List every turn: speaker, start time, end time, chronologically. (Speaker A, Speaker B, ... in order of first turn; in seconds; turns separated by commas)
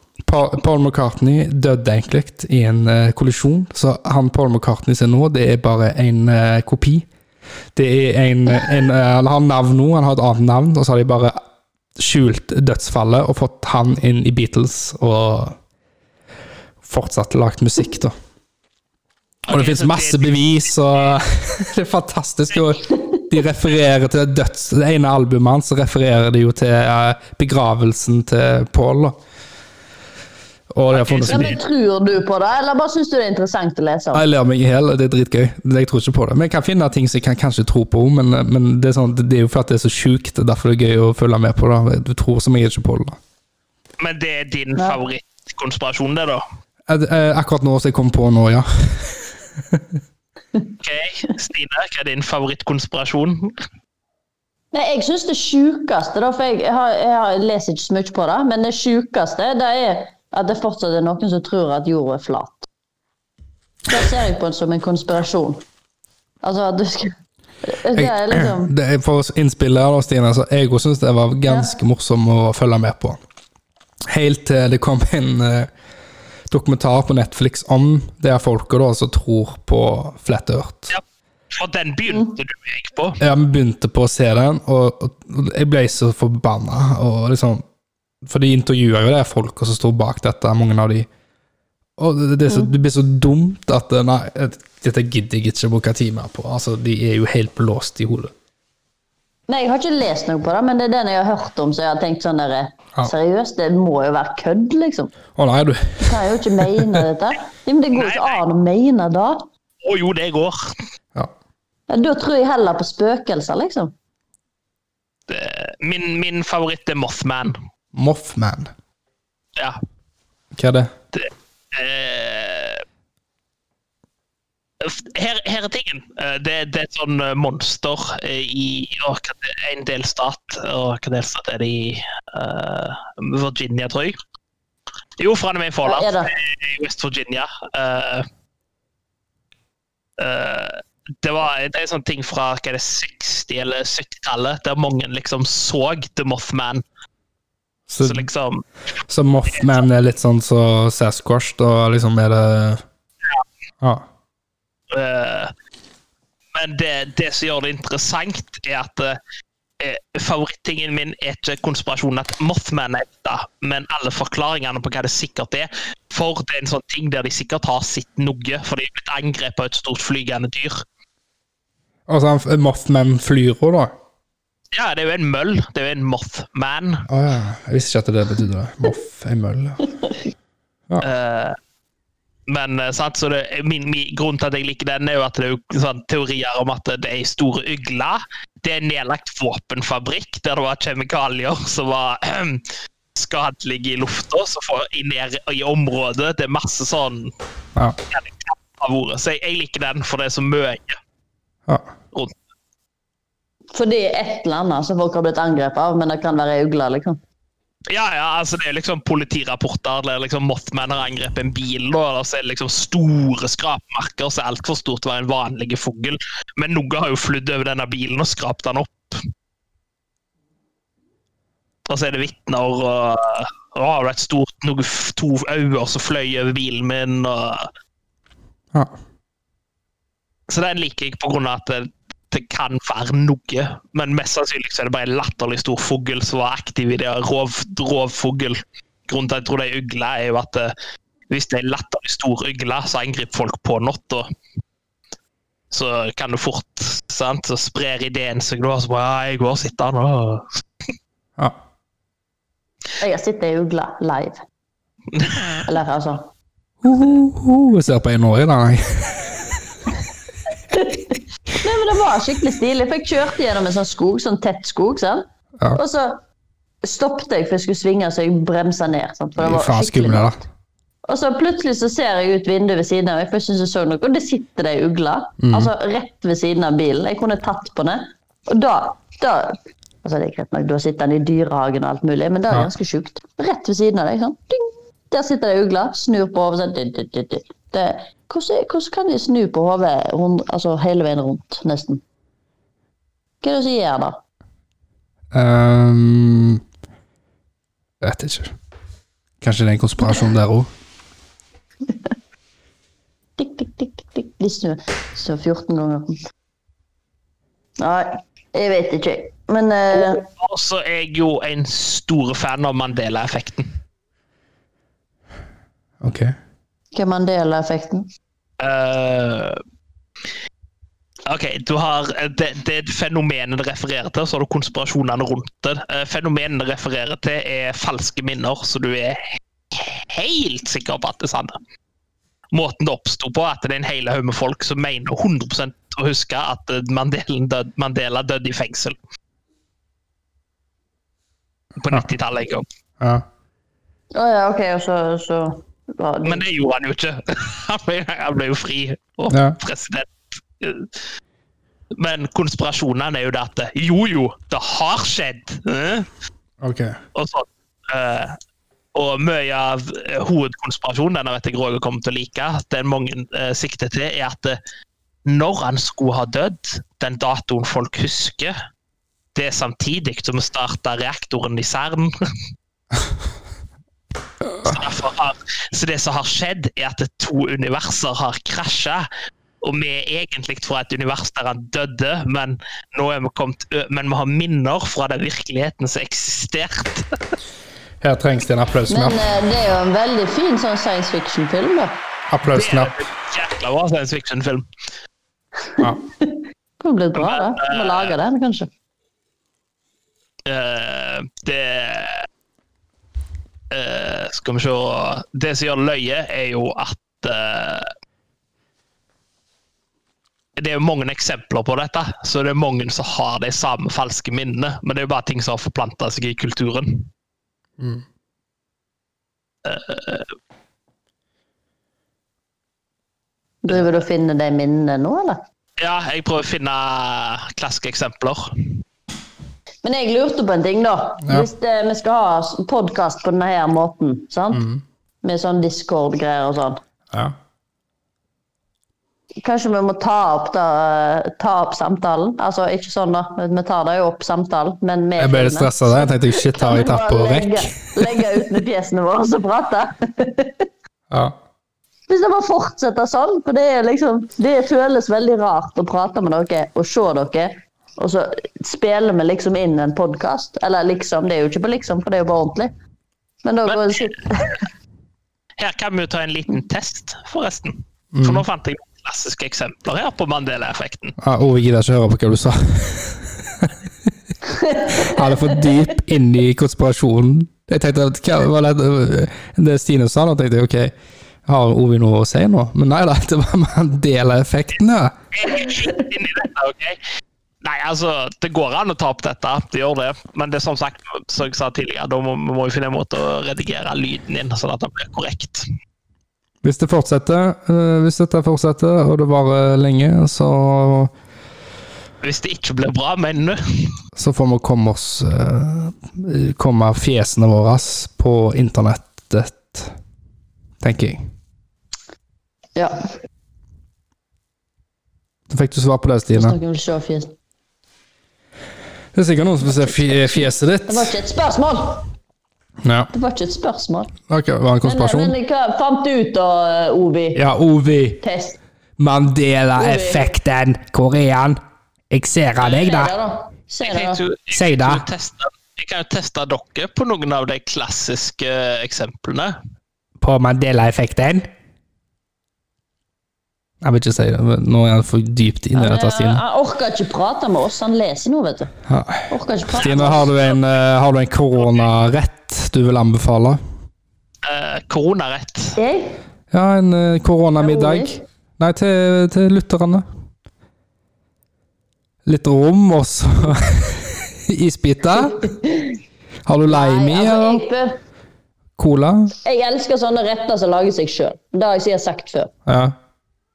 Speaker A: 0.2-7.1, Speaker A: 7.8-11.4, Speaker A: 12.0-15.6, Speaker A: 16.8-18.1, Speaker B: 19.5-20.4, Speaker A: 19.5-29.2, Speaker C: 22.9-23.2, Speaker A: 30.7-31.6, Speaker B: 30.9-31.6, Speaker C: 31.2-34.2, Speaker A: 34.1-43.2, Speaker B: 44.0-46.4, Speaker A: 46.9-49.9, Speaker B: 50.8-53.5, Speaker C: 54.7-62.7, Speaker C: 63.9-65.6, Speaker C: 66.4-68.7, Speaker A: 68.0-73.2, Speaker C: 71.5-71.7, Speaker A: 74.1-75.7, Speaker A: 76.5-80.9, Speaker B: 80.9-83.2, Speaker A: 83.2-87.6, Speaker A: 88.2-91.1, Speaker A: 92.0-98.3, Speaker C: 99.5-105.1, Speaker A: 105.3-107.0, Speaker C: 106.0-109.5, Speaker B: 107.9-108.4, Speaker B: 109.8-110.7, Speaker C: 111.9-113.9, Speaker B: 115.3-117.6, Speaker A: 117.9-118.7, Speaker A: 120.5-120.9, Speaker B: 121.1-122.8, Speaker B: 124.8-134.2, Speaker B: 135.2-138.3, Speaker C: 135.8-136.3, Speaker B: 140.2-146.8, Speaker A: 147.9-148.3, Speaker B: 148.0-148.6, Speaker A: 149.1-152.8, Speaker B: 149.5-149.8, Speaker B: 154.9-155.5, Speaker B: 156.5-159.2, Speaker B: 159.8-170.8, Speaker A: 172.1-173.9, Speaker B: 174.7-177.1, Speaker A: 177.1-179.8, Speaker B: 181.0-181.6, Speaker B: 182.5-197.3, Speaker B: 198.1-201.0, Speaker C: 203.7-207.2, Speaker B: 207.9-219.2, Speaker B: 221.9-227.7, Speaker B: 230.5-240.7, Speaker B: 241.3-244.3, Speaker B: 245.7-250.6, Speaker C: 253.0-254.4, Speaker B: 255.1-255.6, Speaker C: 255.7-256.3, Speaker A: 256.8-259.6, Speaker C: 260.7-266.2, Speaker C: 266.8-270.4, Speaker A: 269.4-270.4, Speaker C: 271.1-292.0, Speaker A: 275.4-275.7, Speaker C: 293.4-294.2, Speaker A: 295.3-296.6, Speaker A: 298.0-298.5, Speaker A: 299.4-300.7, Speaker C: 300.0-300.3, Speaker C: 303.4-306.2, Speaker C: 307.8-310.2, Speaker B: 309.9-313.7, Speaker A: 316.0-316.4, Speaker C: 316.9-318.1, Speaker B: 318.6-319.6, Speaker B: 321.3-331.6, Speaker B: 332.5-339.0, Speaker B: 341.8-342.6, Speaker A: 343.0-343.3, Speaker C: 344.1-346.4, Speaker B: 346.2-350.9, Speaker A: 349.3-349.6, Speaker B: 352.0-356.1, Speaker A: 356.6-357.0, Speaker B: 357.1-358.4, Speaker B: 358.9-364.6, Speaker B: 365.2-368.6, Speaker B: 369.3-372.1, Speaker B: 374.6-379.1, Speaker B: 379.6-387.2, Speaker A: 388.0-389.2, Speaker C: 388.9-392.0, Speaker A: 392.3-392.9, Speaker B: 392.5-394.7, Speaker C: 395.7-398.7, Speaker B: 397.1-398.2, Speaker B: 400.5-402.3, Speaker B: 403.7-407.9, Speaker B: 410.6-417.1, Speaker A: 417.8-418.0, Speaker B: 419.6-420.3, Speaker C: 423.6-425.4, Speaker B: 425.8-428.5, Speaker C: 429.8-434.7, Speaker A: 434.5-434.8, Speaker C: 435.2-436.8, Speaker C: 439.4-450.6, Speaker A: 445.2-448.2, Speaker A: 451.1-451.4, Speaker C: 452.1-462.7, Speaker C: 463.4-464.6, Speaker B: 463.7-464.6, Speaker B: 465.6-471.2, Speaker A: 468.1-468.5, Speaker A: 471.2-474.1, Speaker C: 474.4-475.9, Speaker A: 474.9-480.9, Speaker A: 481.5-485.1, Speaker B: 485.3-487.0, Speaker B: 487.6-495.7, Speaker A: 496.6-501.1, Speaker B: 502.2-503.9, Speaker A: 504.2-509.9, Speaker A: 510.8-511.2, Speaker C: 512.8-513.1, Speaker A: 515.5-516.6, Speaker C: 516.3-517.3, Speaker A: 519.1-521.1, Speaker C: 519.6-522.1, Speaker A: 522.8-523.1, Speaker C: 523.1-524.1, Speaker A: 524.3-525.4, Speaker C: 524.8-527.4, Speaker A: 527.4-528.2, Speaker C: 528.2-528.6, Speaker A: 529.0-531.6, Speaker C: 529.8-530.3, Speaker A: 532.1-533.1, Speaker C: 532.6-534.2, Speaker B: 533.8-539.6, Speaker A: 534.5-535.0, Speaker A: 540.2-541.5, Speaker A: 543.8-546.4, Speaker C: 545.8-548.7, Speaker A: 548.9-553.6, Speaker C: 549.3-550.3, Speaker B: 549.8-550.3, Speaker B: 554.4-555.8, Speaker C: 555.8-556.2, Speaker A: 556.5-560.0, Speaker C: 557.6-558.2, Speaker A: 562.2-565.5, Speaker C: 565.3-566.0, Speaker A: 566.5-567.7, Speaker C: 566.7-568.0, Speaker A: 568.8-569.3, Speaker C: 569.4-572.5, Speaker A: 572.7-573.0